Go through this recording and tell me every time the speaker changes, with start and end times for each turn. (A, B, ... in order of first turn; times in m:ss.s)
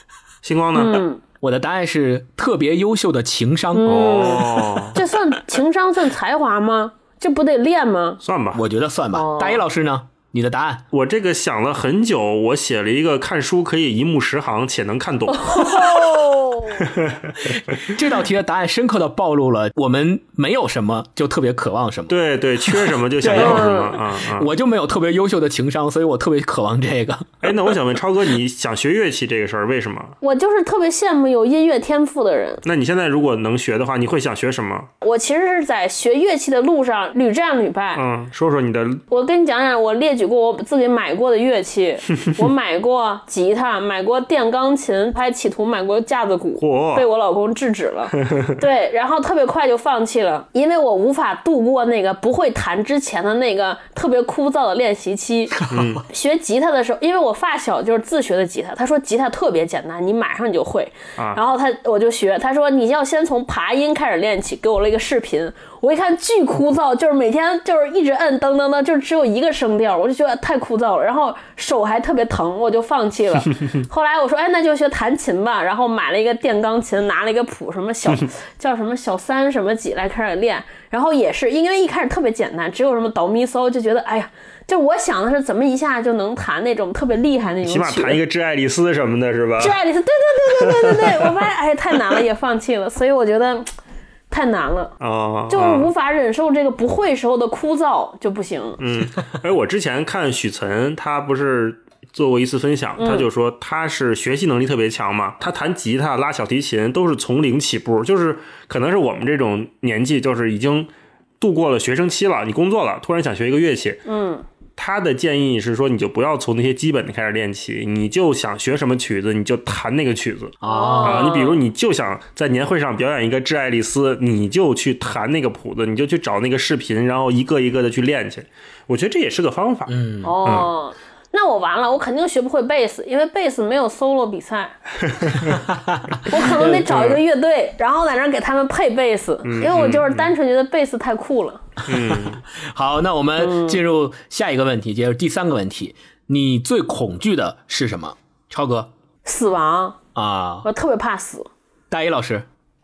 0:00.4-0:01.0 A
0:00.7-0:01.2 B
0:01.4-0:04.8 C
0:03.7-0:08.2 B
0:03.8-0:05.0 A
0:08.2-0:08.6 A
0:08.5-0:10.8 C
0:09.1-0:09.6 B
0:10.9-0:16.0 A
0:15.4-0:16.8 B
0:16.8-0:17.4 A
0:17.4-0:27.6 C
0:22.1-0:24.5 A
0:23.3-0:23.9 B
0:27.4-0:30.2 A
0:30.2-0:32.6 B
0:32.6-0:34.9 A
0:35.0-0:38.0 B
0:37.9-0:39.0 A
0:39.1-1:28.2 B
0:46.6-0:47.0 A
0:55.7-0:56.0 A
1:27.6-1:29.8 A
1:29.6-1:33.7 B
1:30.5-1:31.3 A
1:34.3-1:34.9 B
1:35.0-1:35.9 A
1:35.5-1:38.8 B
1:38.8-1:54.0 A
1:43.0-1:43.3 B
1:54.0-1:54.4 B
1:54.8-2:09.9 A
2:00.6-2:01.3 C
2:00.6-2:01.6 B
2:09.9-2:10.4 C
2:10.2-2:14.8 B
2:10.4-2:10.7 A
2:15.3-2:15.5 A
2:15.5-2:16.8 C
2:16.3-2:21.6 B
2:16.9-2:17.2 A
2:19.4-2:20.3 A
2:21.9-2:22.4 A
2:21.9-2:28.9 C
2:23.4-2:23.8 B
2:29.2-2:30.0 B
2:30.1-2:30.7 C
2:30.6-2:31.5 B
2:31.9-2:32.4 C